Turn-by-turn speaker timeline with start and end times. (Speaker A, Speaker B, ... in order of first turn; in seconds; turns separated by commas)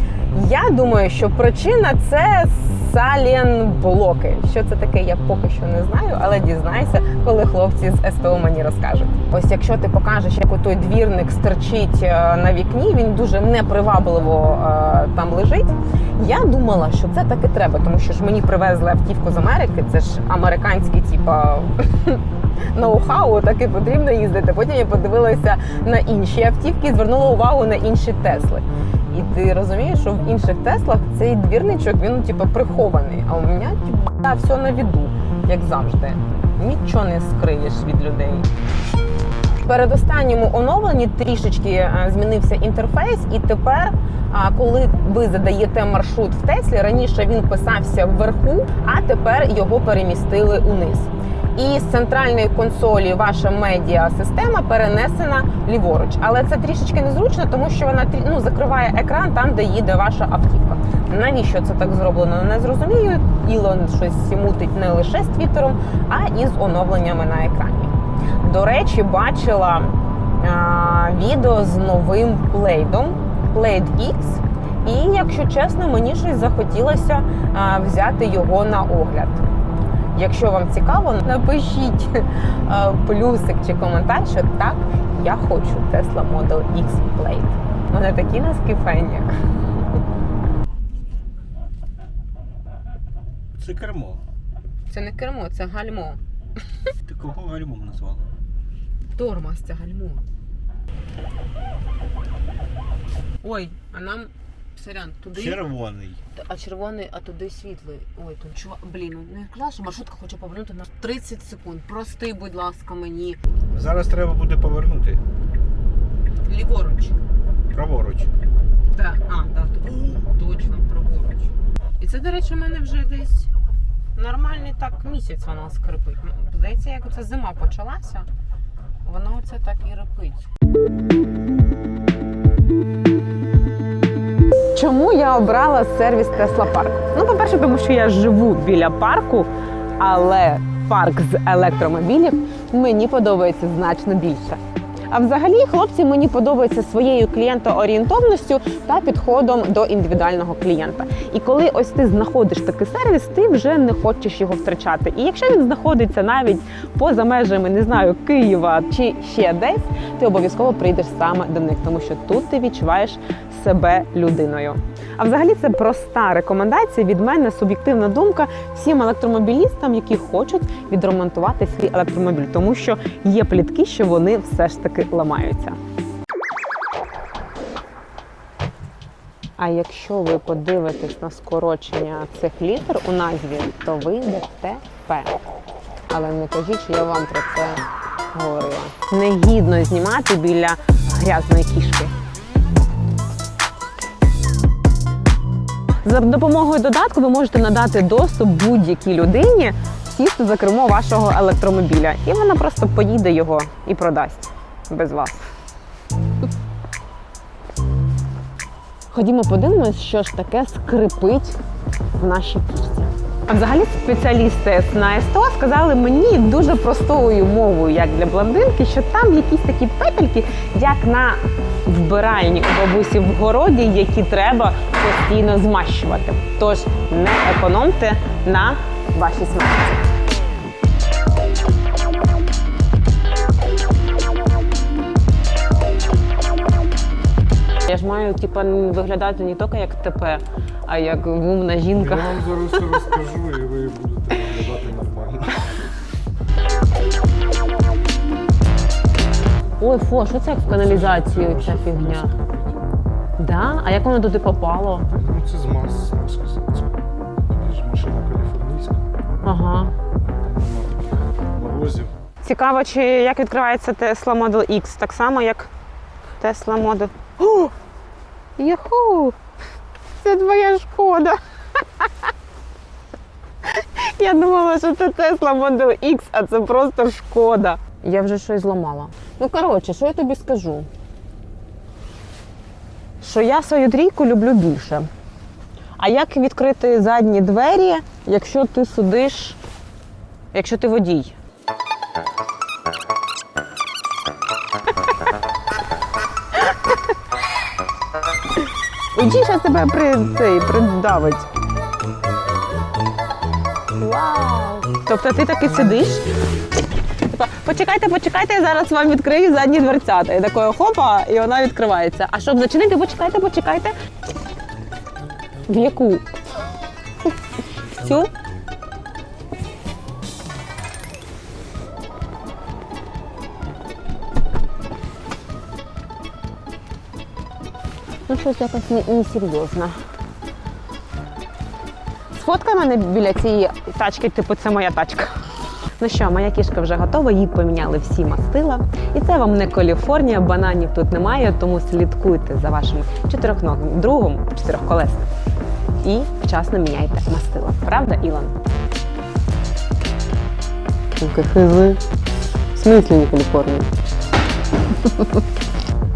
Speaker A: 0.3-38.5, Speaker A: 39.6-79.5, Speaker A: 80.1-89.3, Speaker B: 93.5-94.2, Speaker A: 94.9-96.2, Speaker B: 97.0-98.3, Speaker A: 99.2-100.2, Speaker A: 103.4-105.6, Speaker B: 105.3-106.2, Speaker A: 106.3-113.4, Speaker B: 113.7-115.2, Speaker A: 116.5-117.2, Speaker B: 117.7-118.3, Speaker A: 118.9-123.5, Speaker A: 124.1-128.3, Speaker A: 129.0-130.5, Speaker A: 134.7-175.8, Speaker A: 179.6-185.4, Speaker A: 186.1-192.2, Speaker A: 196.0-205.4, Speaker A: 209.1-211.6, Speaker A: 212.2-230.1, Speaker A: 237.9-242.9, Speaker C: 241.9-245.7, Speaker A: 249.8-252.3, Speaker C: 250.7-252.8, Speaker A: 253.4-255.1, Speaker C: 255.1-259.1, Speaker A: 259.4-259.9, Speaker C: 260.2-262.1, Speaker A: 262.4-265.7, Speaker A: 266.4-267.7, Speaker A: 268.6-269.4, Speaker A: 270.2-272.3, Speaker A: 273.6-280.9, Speaker A: 283.2-285.1, Speaker A: 286.0-289.6, Speaker A: 290.5-291.3, Speaker A: 299.1-301.5, Speaker A: 304.0-306.4, Speaker A: 307.3-313.9, Speaker A: 315.7-316.2, Speaker A: 318.0-318.3, Speaker A: 328.3-330.0, Speaker A: 332.3-335.4, Speaker A: 336.0-345.3, Speaker A: 346.0-348.6, Speaker A: 351.2-352.0, Speaker A: 352.7-353.9, Speaker A: 355.0-355.3